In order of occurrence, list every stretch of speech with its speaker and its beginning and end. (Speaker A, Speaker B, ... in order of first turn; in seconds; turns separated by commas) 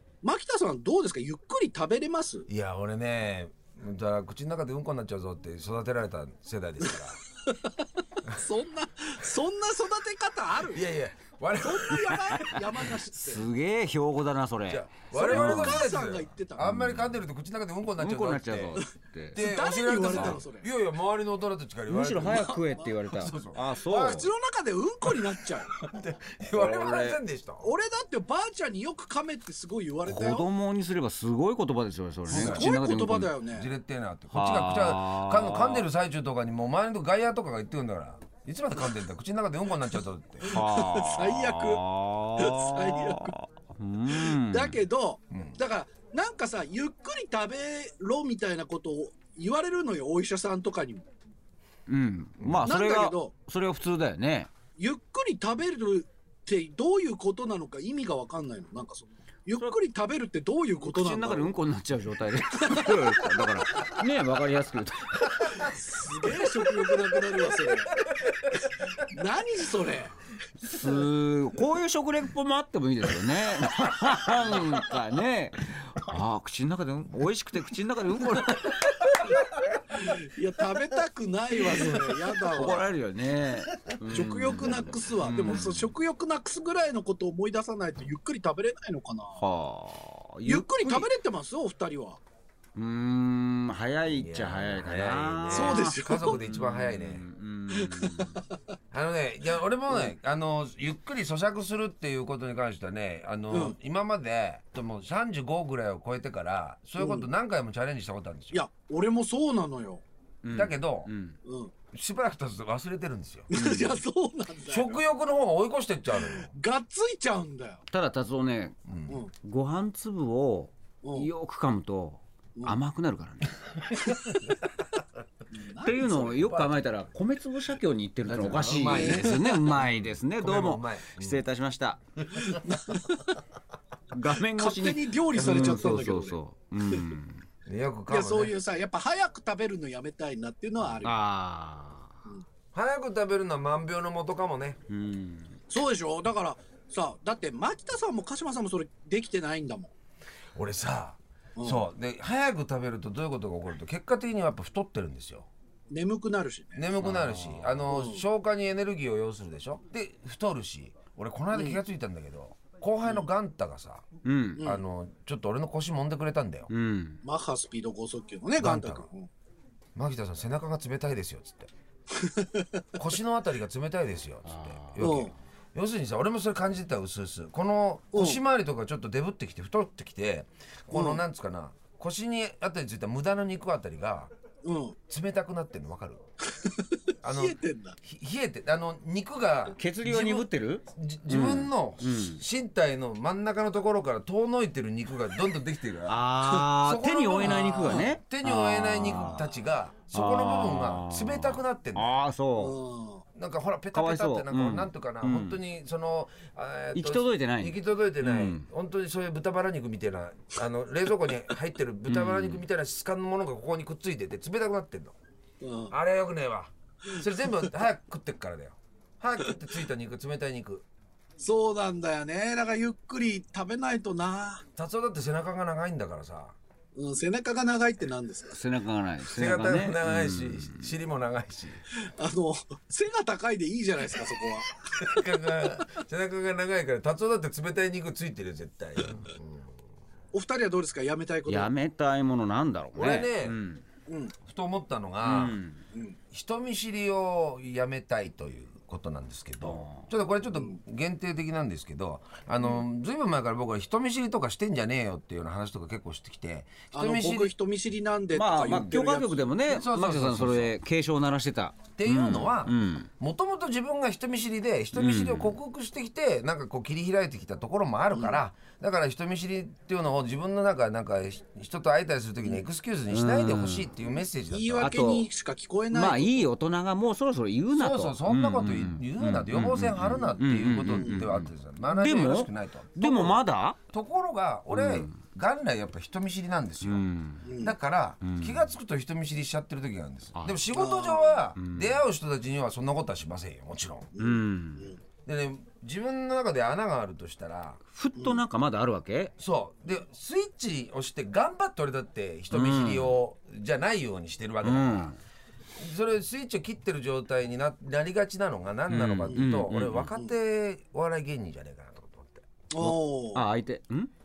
Speaker A: 0.2-2.5, Speaker B: 2.5-7.2, Speaker A: 7.4-10.8, Speaker B: 10.7-12.4, Speaker A: 11.6-13.4, Speaker C: 13.1-15.9, Speaker B: 14.7-18.8, Speaker A: 15.1-16.7, Speaker C: 16.6-17.2, Speaker C: 18.0-19.4, Speaker A: 18.8-20.7, Speaker B: 19.3-22.6, Speaker C: 20.1-20.4, Speaker C: 21.9-24.3, Speaker A: 22.3-22.9, Speaker B: 23.1-24.2, Speaker A: 23.8-25.7, Speaker B: 25.1-27.7, Speaker C: 26.5-27.2, Speaker A: 27.6-30.5, Speaker C: 30.1-33.3, Speaker B: 32.3-32.7, Speaker A: 32.3-33.7, Speaker B: 33.5-40.6, Speaker C: 34.3-35.9, Speaker A: 40.5-41.8, Speaker C: 40.5-44.8, Speaker A: 42.4-43.4, Speaker A: 44.1-51.0, Speaker B: 45.3-45.6, Speaker C: 51.9-54.5, Speaker B: 52.4-52.7, Speaker A: 52.6-53.3, Speaker A: 54.8-61.5, Speaker C: 60.8-65.7, Speaker A: 62.5-63.4, Speaker A: 65.5-68.0, Speaker B: 66.4-68.9, Speaker A: 69.1-70.1, Speaker C: 70.6-79.2, Speaker A: 80.0-82.9, Speaker C: 81.9-85.9, Speaker A: 84.1-89.4, Speaker C: 89.4-91.1, Speaker A: 90.5-92.2, Speaker C: 92.8-98.4, Speaker B: 94.1-97.2, Speaker A: 95.5-96.4, Speaker A: 97.7-98.4, Speaker B: 98.9-108.6, Speaker A: 103.5-103.8, Speaker A: 107.0-107.3, Speaker A: 108.5-110.0, Speaker C: 110.4-111.4, Speaker B: 110.5-111.1, Speaker A: 111.4-111.7, Speaker B: 111.9-113.5, Speaker A: 113.5-115.0, Speaker C: 113.5-114.0, Speaker B: 114.7-116.5, Speaker A: 116.2-117.8, Speaker C: 117.9-118.8, Speaker B: 118.9-119.2, Speaker C: 119.3-123.7, Speaker A: 121.0-121.3, Speaker B: 123.9-124.5, Speaker A: 124.0-124.3, Speaker A: 125.5-126.4, Speaker C: 125.8-132.0, Speaker B: 126.1-126.8, Speaker B: 128.3-131.4, Speaker A: 128.8-129.4, Speaker B: 132.3-132.6, Speaker A: 132.4-133.4, Speaker C: 134.1-137.4, Speaker A: 134.5-136.4, Speaker B: 135.3-135.9, Speaker B: 137.7-138.5, Speaker A: 138.1-141.2, Speaker C: 141.0-142.2, Speaker B: 142.7-144.8, Speaker C: 144.9-145.6, Speaker A: 145.7-149.9, Speaker B: 150.5-155.5, Speaker A: 151.6-151.8, Speaker A: 155.9-156.8, Speaker B: 156.7-164.1, Speaker C: 157.0-157.8, Speaker A: 157.9-158.2, Speaker A: 161.5-161.8, Speaker C: 164.2-164.7, Speaker B: 164.6-166.7, Speaker C: 166.7-167.2, Speaker A: 167.2-169.3, Speaker B: 168.6-169.1, Speaker B: 169.9-171.7, Speaker A: 172.2-172.8, Speaker B: 172.9-184.3, Speaker C: 174.4-175.3, Speaker A: 175.0-175.3, Speaker A: 178.1-178.4, Speaker A: 180.9-181.2, Speaker A: 184.6-185.0, Speaker B: 185.1-186.2, Speaker A: 186.5-188.0, Speaker B: 187.2-202.1, Speaker C: 189.8-192.4, Speaker C: 196.1-199.5, Speaker A: 197.4-198.1, Speaker C: 200.1-202.8, Speaker A: 202.6-203.2, Speaker B: 203.3-215.1, Speaker C: 203.9-205.6, Speaker C: 206.9-208.6, Speaker C: 212.1-212.6, Speaker A: 215.6-215.9, Speaker B: 215.9-220.8, Speaker A: 221.4-224.6, Speaker B: 224.8-226.6, Speaker A: 226.9-228.6, Speaker C: 228.5-230.9, Speaker B: 229.3-231.8, Speaker A: 231.9-234.7, Speaker B: 234.9-239.8, Speaker A: 240.3-241.7, Speaker C: 241.5-243.8, Speaker B: 242.9-243.6, Speaker A: 244.1-244.3, Speaker B: 244.4-245.6, Speaker C: 245.2-245.8, Speaker B: 246.3-257.5, Speaker C: 249.6-250.1, Speaker A: 256.9-259.4, Speaker C: 258.3-263.1, Speaker B: 259.7-260.7, Speaker B: 262.0-275.0, Speaker C: 264.9-265.6, Speaker A: 268.1-268.4, Speaker C: 273.1-273.9, Speaker A: 274.5-276.5, Speaker C: 274.8-275.3, Speaker C: 275.9-283.8, Speaker B: 277.7-287.0, Speaker C: 284.7-285.1, Speaker C: 286.8-287.5, Speaker A: 287.4-287.7, Speaker B: 287.6-294.1, Speaker C: 288.2-288.6, Speaker C: 290.3-290.7, Speaker A: 290.7-291.4, Speaker C: 291.6-292.0, Speaker A: 294.1-295.0, Speaker C: 294.2-294.9, Speaker B: 295.2-297.8, Speaker C: 297.9-299.3, Speaker B: 299.4-305.1, Speaker C: 302.5-303.1, Speaker C: 304.6-305.2, Speaker B: 305.8-312.4, Speaker C: 308.9-310.1, Speaker A: 312.7-313.4, Speaker C: 312.8-314.1